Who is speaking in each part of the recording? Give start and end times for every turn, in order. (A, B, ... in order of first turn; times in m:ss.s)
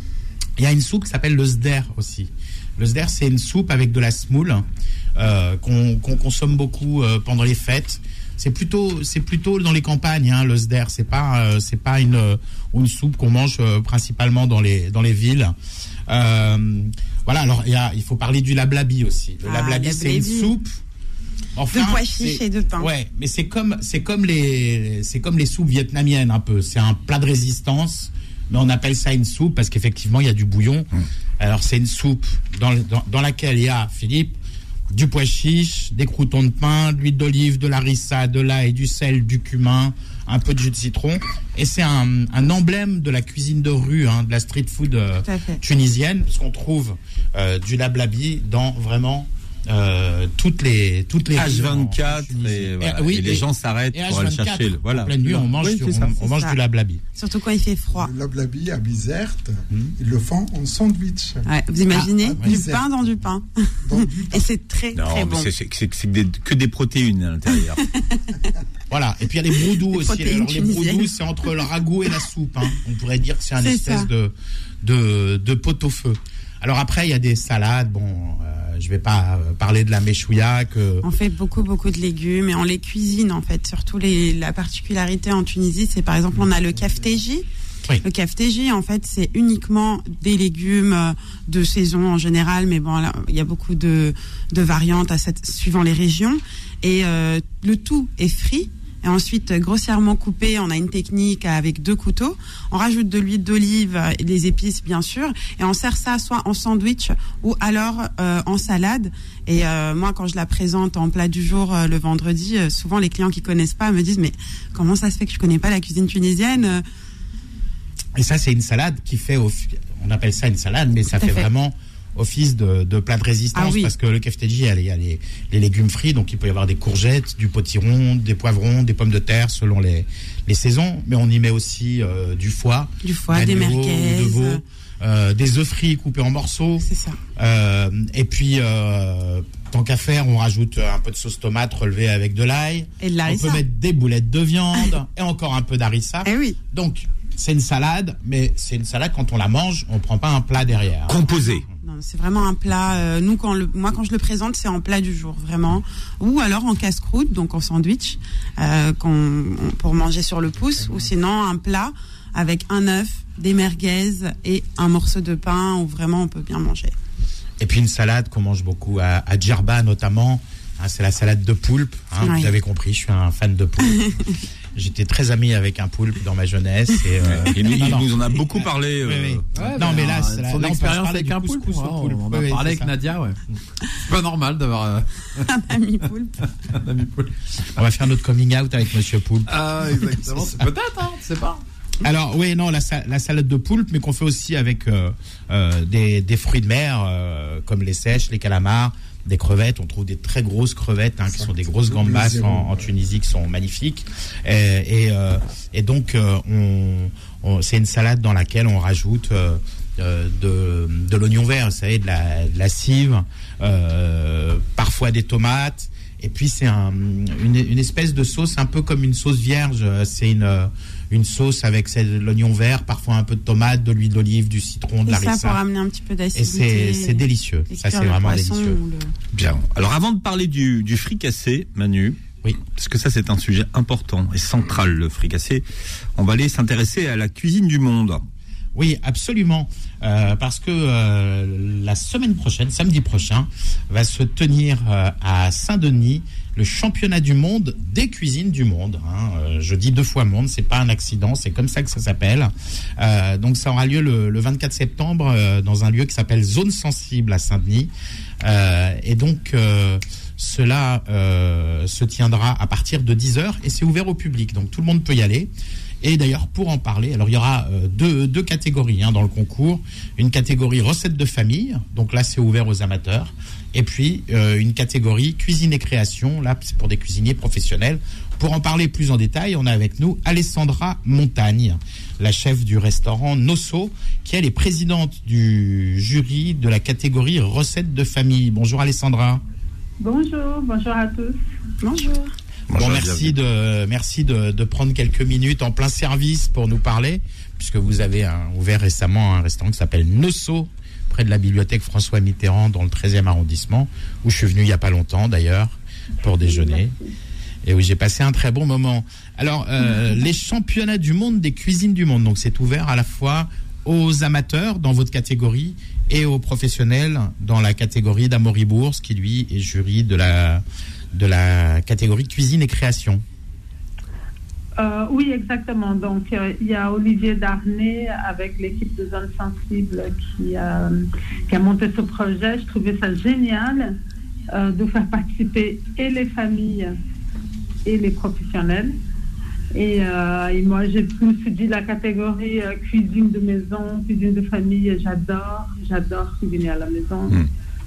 0:00.6-0:15.6 A
0:16.1-0:20.8 A
0:19.4-0:20.5 B
0:21.6-0:30.9 A
0:21.7-0:22.9 B
0:31.4-0:34.4 A
0:34.9-0:57.0 A
0:45.2-0:45.6 B
0:51.4-0:55.7 C
0:55.6-0:56.6 B
0:57.2-0:58.1 B
0:58.0-1:02.9 D
1:01.4-1:05.5 B
1:01.9-1:02.6 A
1:03.8-1:04.5 D
1:05.0-1:07.8 C
1:07.8-1:08.3 B
1:08.9-1:21.0 A
1:09.7-1:11.1 B
1:13.6-1:14.1 B
1:21.0-1:27.4 B
1:28.0-1:56.8 B
1:58.2-2:31.7 A
2:01.2-2:01.5 B
2:03.6-2:03.9 B
2:13.0-2:14.6 B
2:16.8-2:17.2 B
2:23.0-2:23.6 B
2:26.2-2:26.6 B
2:31.1-2:31.6 C
2:31.8-2:47.0 B
2:47.6-2:54.1 A
2:52.2-2:52.5 B
2:53.8-2:54.4 B
2:54.8-3:03.0 A
2:57.2-2:59.5 C
2:59.5-3:03.4 E
3:03.9-3:05.6 E
3:05.4-3:06.5 B
3:06.6-3:07.4 E
3:07.8-3:10.7 A
3:09.5-3:11.6 E
3:12.0-3:45.6 A
3:21.3-3:22.9 D
3:45.1-3:49.1 B
3:46.4-3:48.8 A
3:49.3-3:55.6 C
3:56.2-3:58.2 C
3:58.8-4:25.5 A
4:26.0-4:49.4 A
4:50.0-4:51.4 F
4:51.8-4:52.3 B
4:52.7-4:53.3 C
4:52.7-5:07.0 A
5:06.4-5:07.1 F
5:07.6-5:20.6 A
5:21.1-5:23.2 A
5:24.8-5:34.0 F
5:34.5-5:36.9 F
5:37.9-5:38.9 F
5:39.7-5:47.4 F